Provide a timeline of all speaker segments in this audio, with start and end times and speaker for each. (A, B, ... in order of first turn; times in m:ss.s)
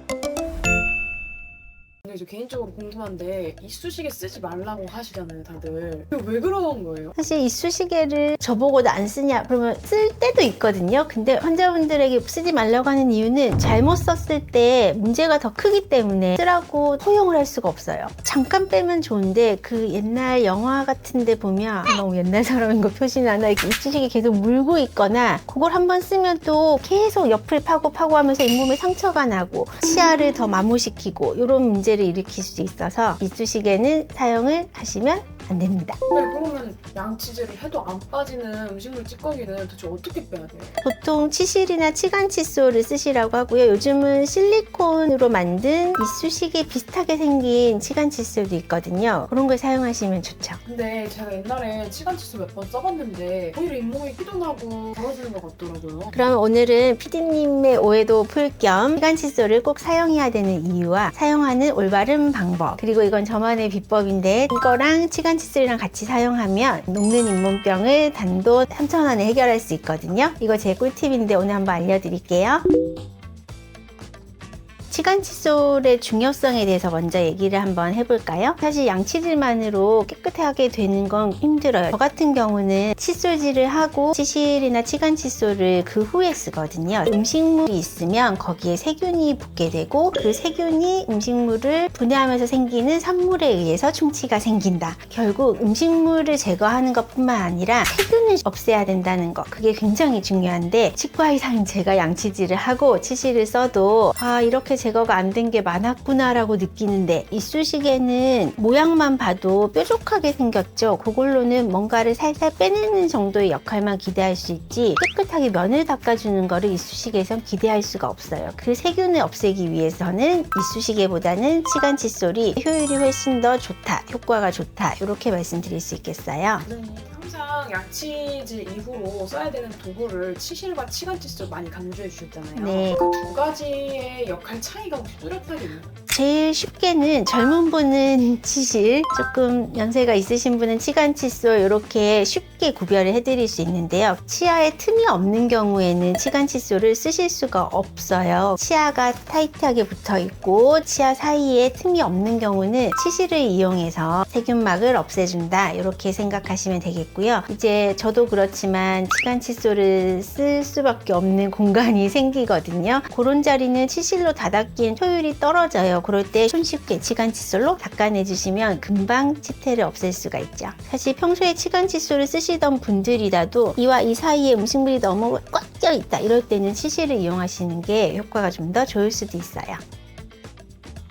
0:02.0-0:07.1 A
0:07.2-0:36.0 B
0:36.1-0:40.8 A
0:40.8-0:50.6 B
0:50.6-0:56.2 A
0:56.1-1:12.6 B
1:14.9-2:06.6 B
2:06.6-2:15.9 A
2:12.6-2:13.0 B
2:16.1-2:59.8 B